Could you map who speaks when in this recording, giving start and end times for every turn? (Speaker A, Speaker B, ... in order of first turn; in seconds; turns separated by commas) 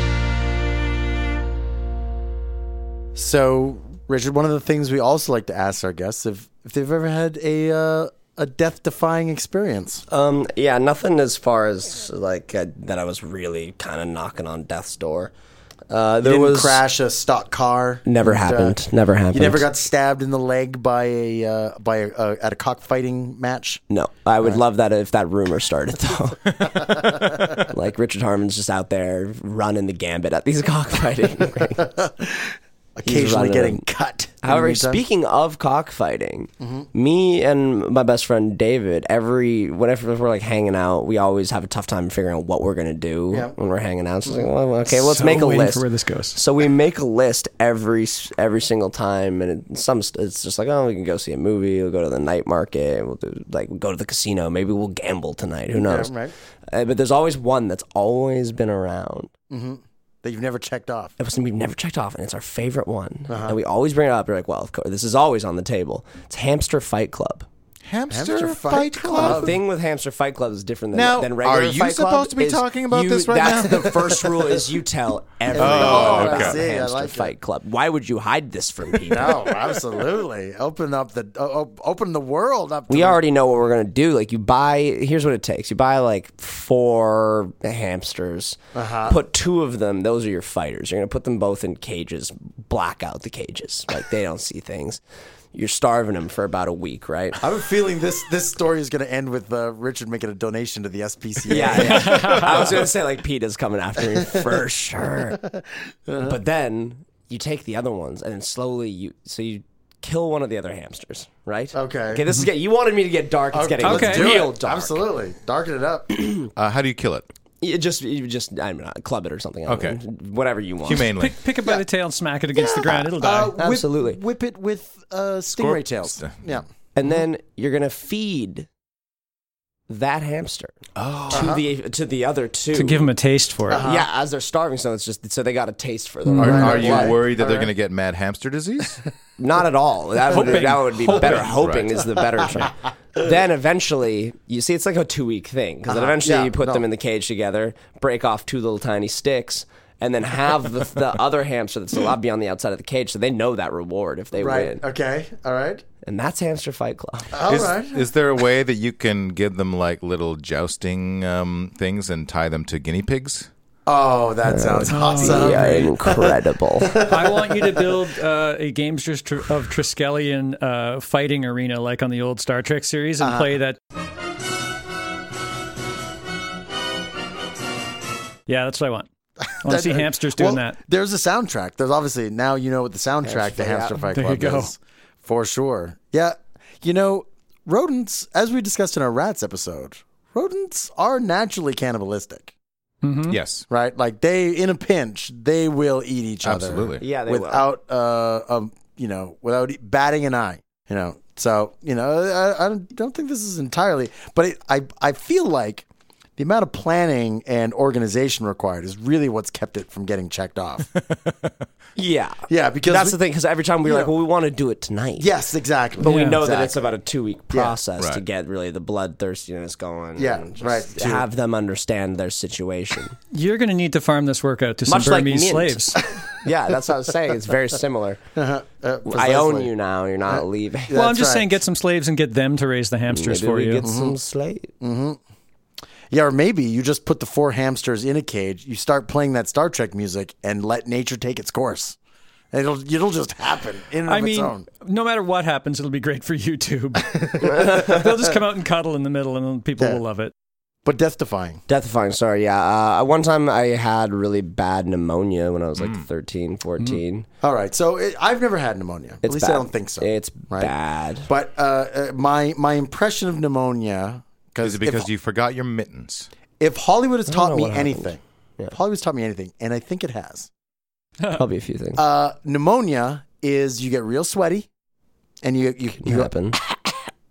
Speaker A: 3.1-10.0, Speaker B: 10.1-15.3, Speaker B: 15.9-16.8, Speaker A: 16.2-18.8, Speaker B: 18.1-19.6, Speaker A: 19.3-23.8, Speaker B: 23.9-26.4, Speaker A: 26.9-27.7, Speaker B: 27.6-31.9, Speaker A: 31.8-35.0, Speaker B: 33.0-33.8, Speaker B: 34.4-56.1, Speaker A: 36.6-36.9, Speaker C: 44.9-46.4, Speaker A: 55.7-56.3, Speaker B: 56.7-59.3, Speaker A: 59.5-61.1, Speaker B: 61.2-67.5, Speaker A: 63.3-63.6, Speaker D: 67.9-69.6, Speaker A: 68.1-69.6, Speaker B: 69.1-79.5, Speaker D: 70.9-74.1, Speaker A: 73.7-74.3, Speaker A: 75.5-77.3, Speaker D: 75.5-76.6, Speaker A: 79.0-83.2, Speaker B: 82.9-95.0, Speaker A: 88.7-89.2, Speaker B: 95.5-97.4, Speaker A: 97.4-102.4, Speaker B: 101.5-105.4, Speaker C: 101.7-102.9, Speaker A: 104.1-104.5, Speaker A: 105.4-106.4, Speaker B: 106.2-115.0, Speaker A: 111.7-112.2, Speaker A: 113.5-116.2, Speaker C: 113.8-114.5, Speaker B: 116.2-116.5, Speaker D: 116.5-117.3, Speaker B: 117.6-121.1, Speaker D: 119.7-120.0, Speaker D: 120.8-121.4, Speaker C: 121.2-123.5, Speaker A: 122.5-126.6, Speaker B: 123.5-124.2, Speaker D: 125.5-126.5, Speaker B: 127.0-128.7, Speaker B: 129.9-130.8, Speaker D: 131.0-131.5, Speaker B: 131.3-133.1, Speaker A: 131.3-131.6, Speaker C: 132.7-133.9, Speaker A: 133.7-134.1, Speaker B: 133.8-137.1, Speaker C: 136.3-136.8, Speaker A: 136.4-137.7, Speaker D: 136.4-139.0, Speaker B: 139.4-154.8, Speaker C: 140.3-141.6, Speaker D: 141.4-141.9, Speaker A: 145.9-146.8, Speaker A: 154.4-155.8, Speaker B: 156.0-157.4, Speaker A: 157.3-158.1, Speaker D: 157.5-163.5, Speaker A: 163.9-167.8, Speaker B: 164.4-167.1, Speaker C: 164.9-165.9, Speaker C: 167.0-173.8, Speaker A: 173.2-173.5, Speaker C: 178.5-179.1, Speaker A: 179.4-192.5, Speaker C: 179.6-180.8, Speaker B: 183.2-184.1, Speaker C: 184.1-184.7, Speaker C: 193.0-193.4, Speaker D: 193.3-193.6, Speaker A: 193.7-205.9, Speaker D: 196.4-197.0, Speaker B: 197.0-197.7, Speaker A: 206.4-210.9, Speaker D: 210.9-211.7, Speaker B: 211.9-215.3, Speaker A: 212.5-213.2, Speaker A: 213.8-214.1, Speaker A: 215.2-216.8, Speaker B: 216.0-223.2, Speaker C: 216.0-216.4, Speaker A: 217.5-217.8, Speaker D: 218.0-218.2, Speaker A: 220.2-221.2, Speaker C: 223.3-226.0, Speaker B: 224.9-228.2, Speaker A: 228.4-229.7, Speaker B: 229.1-230.9, Speaker A: 230.3-231.5, Speaker C: 230.9-233.8, Speaker B: 233.1-234.7, Speaker A: 233.8-234.1, Speaker A: 234.8-235.2, Speaker A: 236.1-242.0, Speaker A: 242.5-244.7, Speaker C: 244.1-250.3, Speaker B: 247.4-248.0, Speaker A: 247.6-247.8, Speaker A: 250.8-251.6, Speaker B: 251.7-257.3, Speaker D: 255.8-256.1, Speaker A: 257.4-260.7, Speaker B: 259.2-261.3, Speaker A: 261.3-265.1, Speaker D: 264.6-266.3, Speaker A: 266.6-268.2, Speaker B: 267.3-268.7, Speaker A: 268.7-270.5, Speaker B: 271.3-272.0, Speaker A: 272.0-274.7, Speaker A: 275.4-277.0, Speaker B: 276.0-276.6